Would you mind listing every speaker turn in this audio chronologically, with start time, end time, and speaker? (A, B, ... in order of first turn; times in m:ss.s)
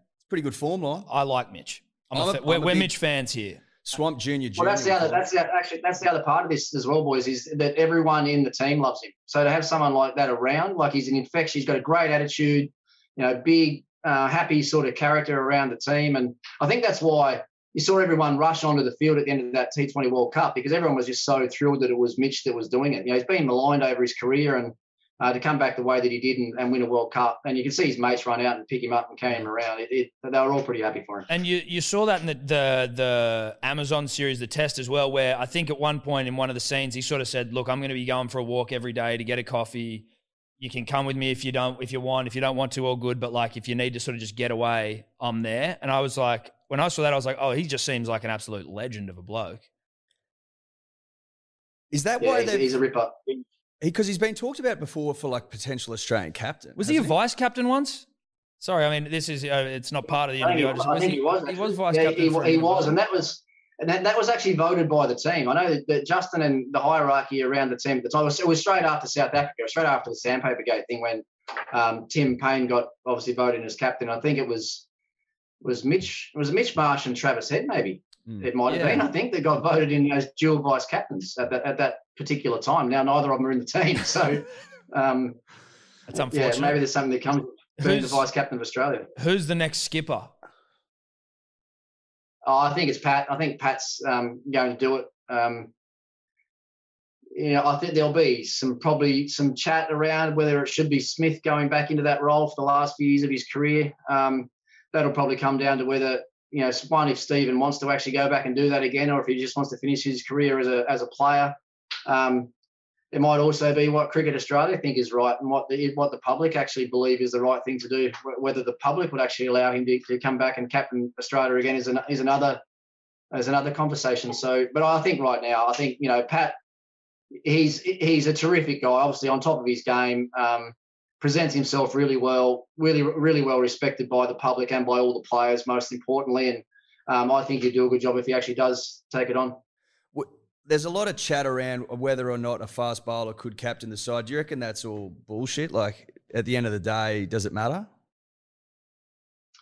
0:00.2-0:01.1 A
0:01.1-0:03.6 B
0:02.1-0:02.9 A
0:03.8-0:05.2 A
0:04.6-0:31.3 C
0:31.3-0:40.1 B
0:40.6-0:49.6 B
0:51.9-0:52.7 A
0:52.2-0:53.4 C
0:53.8-0:57.1 A
0:56.8-0:58.1 B
0:58.6-1:03.0 B
1:00.4-1:14.8 C
1:15.6-1:25.4 C
1:18.6-1:19.1 B
1:26.1-1:26.8 B
1:26.2-1:29.1 C
1:27.8-1:28.2 B
1:29.2-1:30.3 B
1:32.4-1:35.7 C
1:37.3-1:51.6 C
1:52.1-1:52.5 C
1:53.1-2:02.6 C
2:03.3-2:06.6 C
2:07.4-2:19.6 C
2:20.1-2:27.9 A